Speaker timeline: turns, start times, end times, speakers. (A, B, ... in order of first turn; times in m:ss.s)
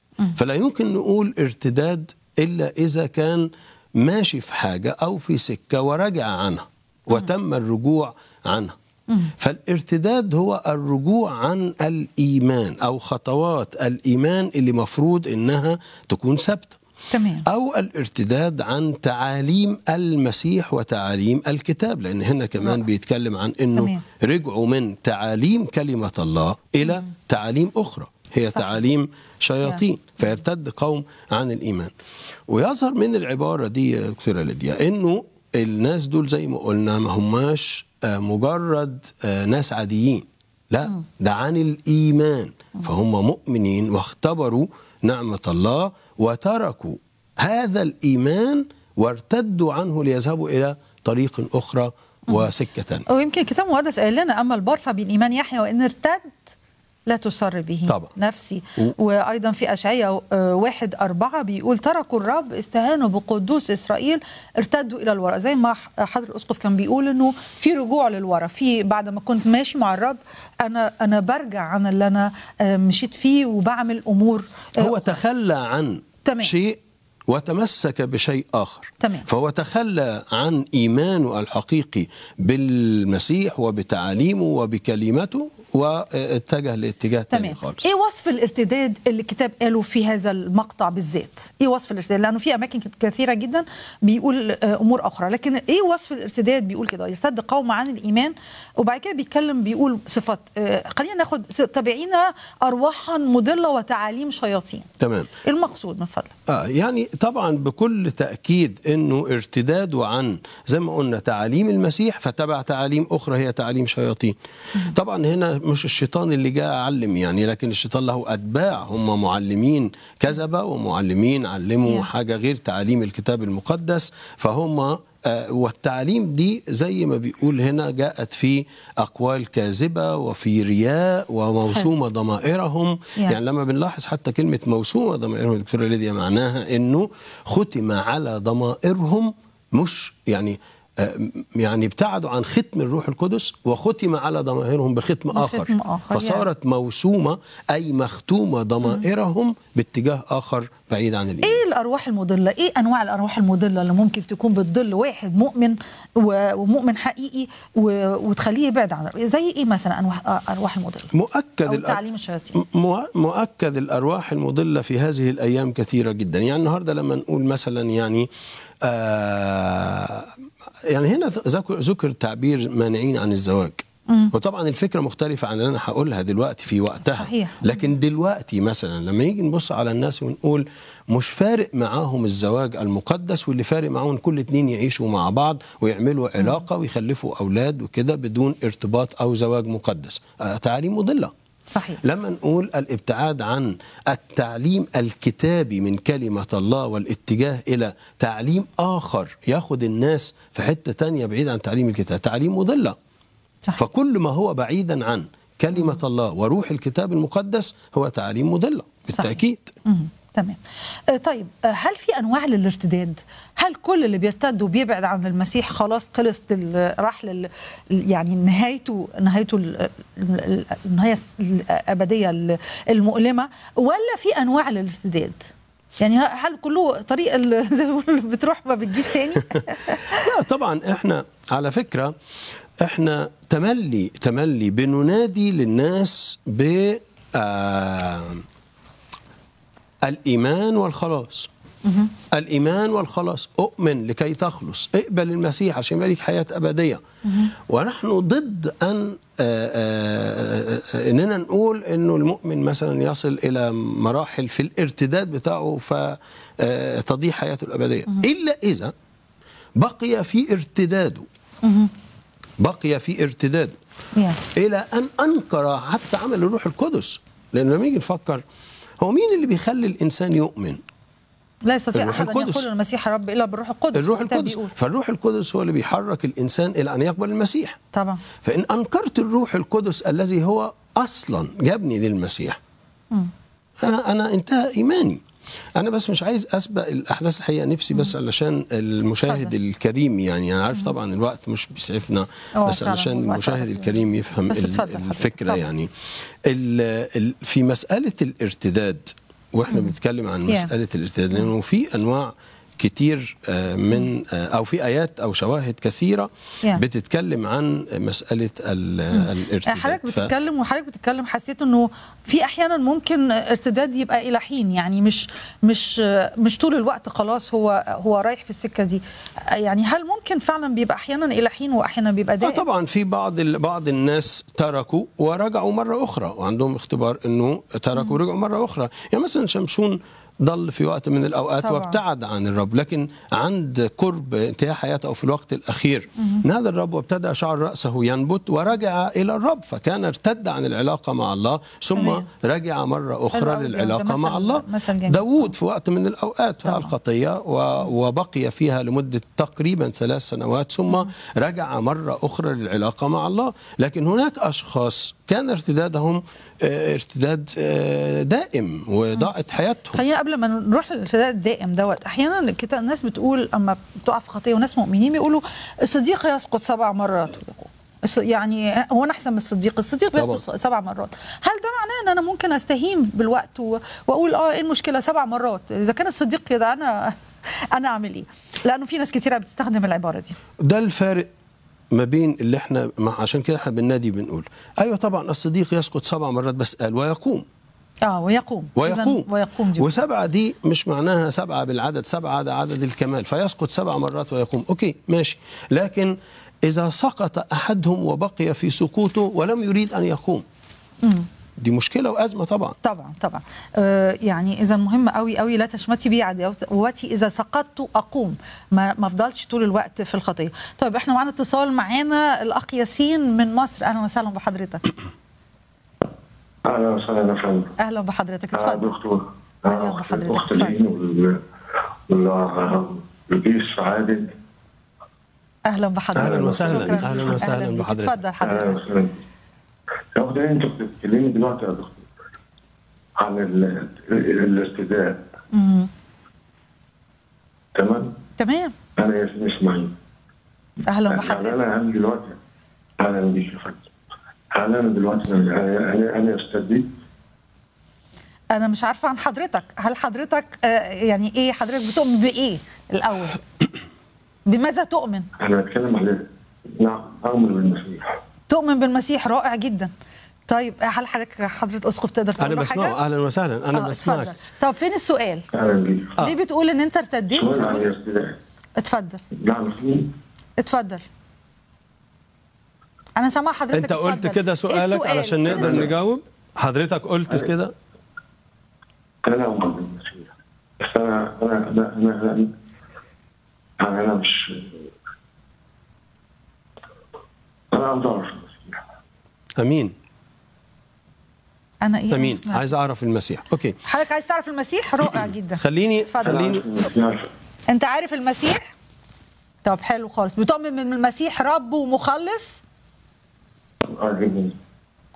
0:00.4-0:08.8 A
0:09.4-0:16.8 A
0:17.1-0:17.4 B
0:17.4-0:31.9 A
0:23.8-0:24.0 B
0:26.8-0:27.1 B
0:28.5-0:28.8 B
0:32.5-0:53.0 A
0:53.1-0:56.4 B
0:57.1-1:15.2 B
1:14.8-1:27.9 A
1:16.2-1:16.5 B
1:19.0-1:19.2 B
1:27.3-1:44.9 B
1:45.0-1:45.3 A
1:45.4-1:46.3 B
1:46.5-1:54.4 A
1:54.9-2:31.6 A
2:25.3-2:26.4 B
2:31.4-2:41.1 B
2:41.1-2:42.0 A
2:41.6-2:42.6 B
2:42.5-2:48.3 A
2:48.8-2:50.3 A
2:50.8-3:11.3 A
2:57.0-2:57.9 B
3:06.4-3:06.6 B
3:11.7-3:12.0 B
3:12.0-3:23.0 A
3:23.8-3:29.7 A
3:29.1-3:50.2 B
3:49.5-3:52.1 A
3:52.8-3:58.4 A
4:00.0-4:01.5 A
4:01.8-4:02.1 B
4:02.3-4:07.0 A
4:07.3-4:07.5 B
4:07.5-4:18.9 A
4:19.8-4:21.3 A
4:21.6-4:21.9 B
4:22.6-4:23.8 A
4:24.5-4:28.4 A
4:29.0-4:30.8 A
4:31.6-4:34.7 B
4:31.9-4:32.6 A
4:33.9-4:37.8 A
4:37.9-4:38.2 B
4:38.4-4:42.6 A
4:43.8-4:45.2 A
4:45.8-4:55.9 A
4:49.3-4:49.5 B
4:52.6-4:54.0 B
4:54.5-4:55.6 B
4:56.4-5:10.3 A
5:09.1-5:22.6 B
5:22.4-6:00.0 A
5:31.6-5:32.0 B
5:41.9-5:42.2 B
5:43.3-5:45.5 B
5:46.6-5:46.9 B
5:59.9-6:17.2 B
6:10.1-6:10.4 A
6:17.7-6:20.4 B
6:20.6-6:21.3 A
6:21.9-6:27.4 A
6:28.0-6:29.9 B
6:28.8-6:40.4 A
6:41.6-6:42.8 A
6:42.8-6:54.8 B
6:56.6-6:57.7 C
6:57.8-6:59.0 B
6:58.5-7:01.4 C
6:59.7-7:00.8 B
7:02.1-7:04.3 C
7:05.7-7:08.8 B
7:06.1-7:07.4 C
7:06.1-7:08.2 A
7:08.4-7:09.2 C
7:10.2-7:12.1 C
7:13.2-7:15.2 C
7:15.5-7:15.9 B
7:17.8-7:18.1 C
7:18.4-7:18.7 B
7:19.0-7:20.0 C
7:20.9-7:21.6 B
7:21.1-7:22.4 C
7:23.0-7:23.9 C
7:24.5-7:26.9 C
7:28.5-7:33.4 B
7:34.5-7:35.3 B
7:35.4-7:36.2 C
7:36.8-7:38.2 C
7:38.5-7:39.9 B
7:40.5-7:43.0 B
7:42.4-7:44.3 A
7:43.7-7:45.4 B
7:45.5-7:46.2 C
7:46.2-7:47.9 B
7:47.3-7:48.4 C
7:48.8-7:49.2 B
7:49.4-7:50.1 C
7:50.6-7:51.0 B
7:53.2-7:55.9 B
7:53.7-7:57.7 A
7:55.5-7:55.9 C
7:59.2-8:02.5 C
8:03.8-8:04.8 C
8:07.7-8:08.8 C
8:09.6-8:09.9 A
8:11.8-8:12.7 B
8:12.1-8:13.8 A
8:13.8-8:16.6 B
8:15.6-8:16.6 A
8:16.2-8:17.3 C
8:17.7-8:18.7 B
8:19.6-8:22.6 B
8:23.8-8:24.6 C